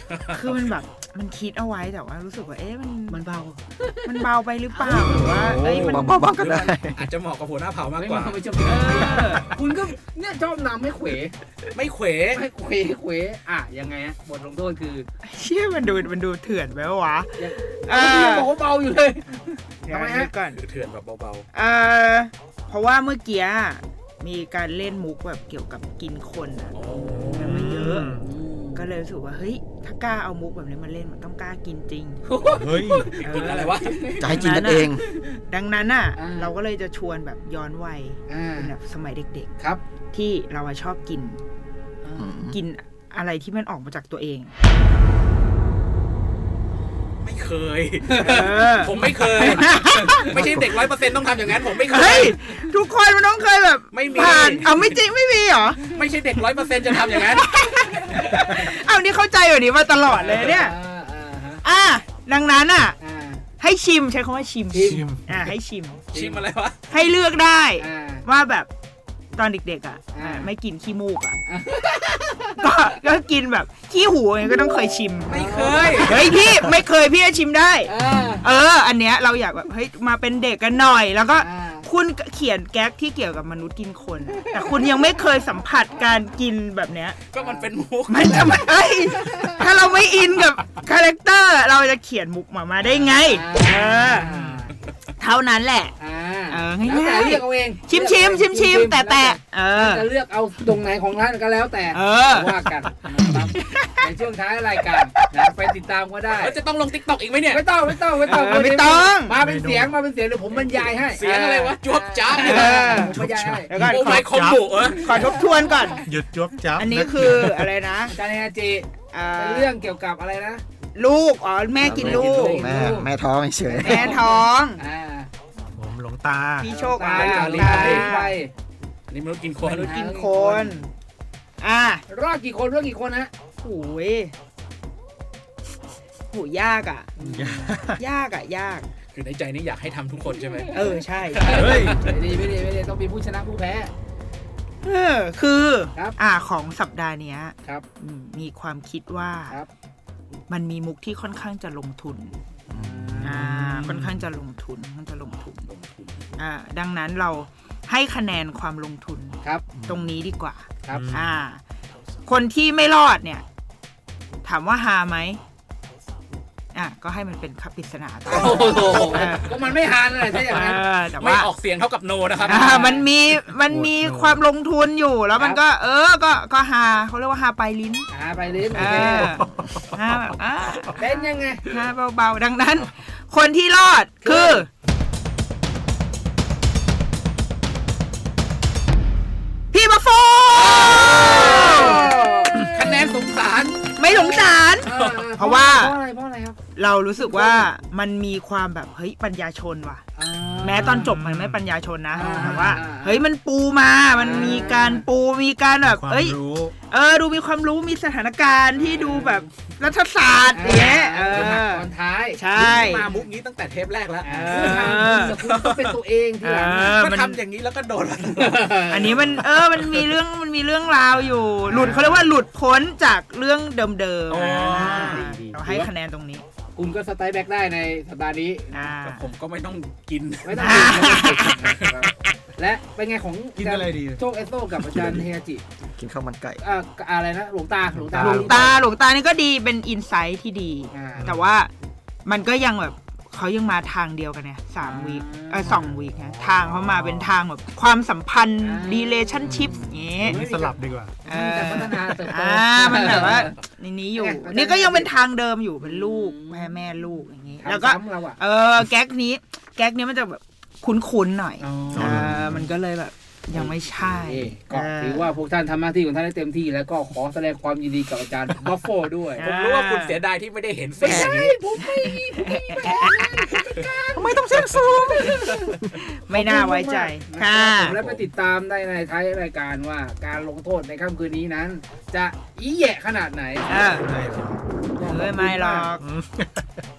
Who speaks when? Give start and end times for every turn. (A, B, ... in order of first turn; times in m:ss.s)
0:00.1-0:00.3 A
0:00.3-0:03.2 B
0:03.1-0:03.5 A
0:03.1-0:03.9 C
0:04.0-0:06.3 B
0:04.7-0:05.4 C
0:05.3-0:05.9 D
0:05.5-0:07.0 E
0:06.2-0:09.5 A
0:08.0-0:11.3 C
0:08.6-0:09.4 B
0:11.7-0:12.4 A
0:12.3-0:15.1 C
0:15.2-0:18.5 B
0:17.4-0:20.3 C
0:19.8-0:20.6 B
0:20.5-0:21.4 A
0:21.5-0:26.8 B
0:26.7-0:27.5 A
0:27.1-0:28.3 D
0:27.3-0:28.1 B
0:28.1-0:28.9 C
0:28.7-0:32.2 B
0:32.2-0:34.2 C
0:32.5-0:33.2 D
0:33.2-0:34.2 A
0:33.2-0:39.5 B
0:34.2-0:35.0 E
0:36.2-0:36.5 C
0:38.3-0:38.7 C
0:40.1-0:41.4 B
0:42.0-0:42.3 C
0:42.2-0:42.6 E
0:42.5-0:44.5 B
0:47.2-0:52.4 A
0:48.1-0:48.4 C
0:48.2-0:50.2 B
0:50.3-0:50.8 E
0:51.8-0:55.8 B
0:53.9-0:54.9 A
0:54.1-0:54.7 C
0:55.9-0:58.6 A
0:56.9-1:00.7 B
1:00.0-1:01.6 C
1:01.6-1:03.0 B
1:03.0-1:03.4 C
1:03.6-1:06.0 B
1:04.7-1:05.0 C
1:04.8-1:05.4 D
1:06.1-1:06.8 A
1:06.1-1:06.4 C
1:06.9-1:08.7 B
1:07.8-1:08.2 C
1:09.4-1:11.4 B
1:10.1-1:10.5 C
1:11.5-1:12.6 C
1:12.6-1:15.4 B
1:15.3-1:16.3 A
1:15.3-1:16.1 C
1:16.0-1:27.2 B
1:17.8-1:18.5 C
1:21.3-1:21.9 C
1:27.3-1:29.2 A
1:27.4-1:27.7 C
1:28.1-1:34.3 B
1:32.8-1:34.7 C
1:34.3-1:34.5 D
1:35.2-1:35.9 B
1:36.0-1:46.6 C
1:36.5-1:40.1 B
1:41.9-1:42.6 B
1:43.4-1:44.1 B
1:46.3-1:47.6 A
1:47.5-1:53.7 C
1:48.2-1:49.4 B
1:49.3-1:50.0 D
1:50.5-1:53.0 A
1:52.3-1:54.3 B
1:53.0-1:54.7 D
1:53.7-1:55.3 A
1:54.7-1:56.0 C
1:55.0-1:56.0 B
1:56.0-1:57.7 D
1:56.8-1:58.2 B
1:58.1-2:00.6 C
1:59.1-1:59.7 B
2:00.9-2:02.9 B
2:01.8-2:04.2 E
2:01.8-2:02.6 A
2:01.8-2:03.1 C
2:03.7-2:04.8 B
2:03.7-2:05.3 C
2:05.8-2:06.7 D
2:06.6-2:08.4 B
2:06.6-2:08.5 C
2:07.1-2:08.1 A
2:09.1-2:10.0 A
2:09.6-2:10.8 C
2:09.8-2:10.9 B
2:11.6-2:12.0 B
2:12.1-2:13.3 C
2:13.6-2:14.3 B
2:16.3-2:17.1 B
2:17.2-2:17.8 C
2:17.2-2:18.0 D
2:18.0-2:18.9 B
2:19.1-2:22.2 A
2:20.7-2:21.8 B
2:21.4-2:23.9 C
2:21.5-2:22.0 D
2:24.8-2:29.6 B
2:30.5-2:32.4 B
2:32.7-2:33.4 E
2:32.7-2:33.4 C
2:33.2-2:35.7 B
2:33.4-2:34.3 D
2:35.6-2:36.3 A
2:36.4-2:41.6 B
2:39.7-2:40.1 E
2:40.9-2:41.3 D
2:42.2-2:43.4 B
2:44.4-2:45.4 B
2:46.7-2:49.6 B
2:48.2-2:50.8 C
2:50.4-2:51.5 B
2:50.5-2:53.0 A
2:52.4-2:58.1 B
2:52.5-2:53.0 C
2:53.7-2:54.4 D
2:58.1-2:59.3 C
2:58.7-2:59.7 D
2:58.7-3:04.7 B
3:01.0-3:01.6 C
3:04.2-3:04.6 C
3:09.7-3:12.1 B
3:10.8-3:13.3 C
3:11.0-3:12.1 A
3:12.7-3:14.3 A
3:14.0-3:15.9 B
3:14.1-3:16.6 C
3:14.8-3:15.2 A
3:16.7-3:20.0 B
3:17.2-3:17.7 C
3:20.2-3:21.2 C
3:20.4-3:21.6 D
3:20.6-3:33.1 B
3:22.1-3:23.2 C
3:22.3-3:22.8 D
3:24.1-3:25.0 C
3:25.8-3:26.7 D
3:28.7-3:29.4 C
3:30.5-3:33.3 C
3:32.5-3:36.0 A
3:34.2-3:37.0 C
3:34.4-3:35.4 B
3:36.4-3:37.4 B
3:36.9-3:40.1 A
3:38.3-3:39.4 C
3:38.9-3:46.4 B
3:41.6-3:42.3 C
3:44.3-3:45.2 A
3:44.3-3:45.9 C
3:46.7-3:48.9 C
3:48.7-3:49.3 B
3:49.0-3:52.0 A
3:50.4-3:55.6 C
3:50.6-3:51.6 B
3:53.6-3:54.2 D
3:54.8-3:55.2 E
3:55.8-3:56.6 E
3:56.6-3:58.8 C
3:57.9-3:58.6 D
3:58.2-4:01.7 B
4:00.9-4:01.4 C
4:01.2-4:01.5 D
4:02.2-4:10.4 B
4:04.8-4:05.8 C
4:05.6-4:07.4 D
4:08.6-4:09.5 C
4:09.4-4:11.2 D
4:09.7-4:10.0 E
4:10.2-4:13.6 C
4:11.2-4:25.3 B
4:14.1-4:15.1 C
4:15.8-4:17.0 C
4:17.6-4:18.4 C
4:21.6-4:22.4 C
4:21.9-4:22.7 D
4:23.5-4:29.5 C
4:29.4-4:30.2 B
4:29.4-4:31.6 A
4:31.0-4:45.9 C
4:31.0-4:33.5 B
4:34.1-4:35.4 E
4:34.5-4:34.8 A
4:35.9-4:38.0 B
4:43.7-4:44.1 B
4:43.9-4:44.6 D
4:45.0-4:46.0 B
4:46.0-4:46.8 D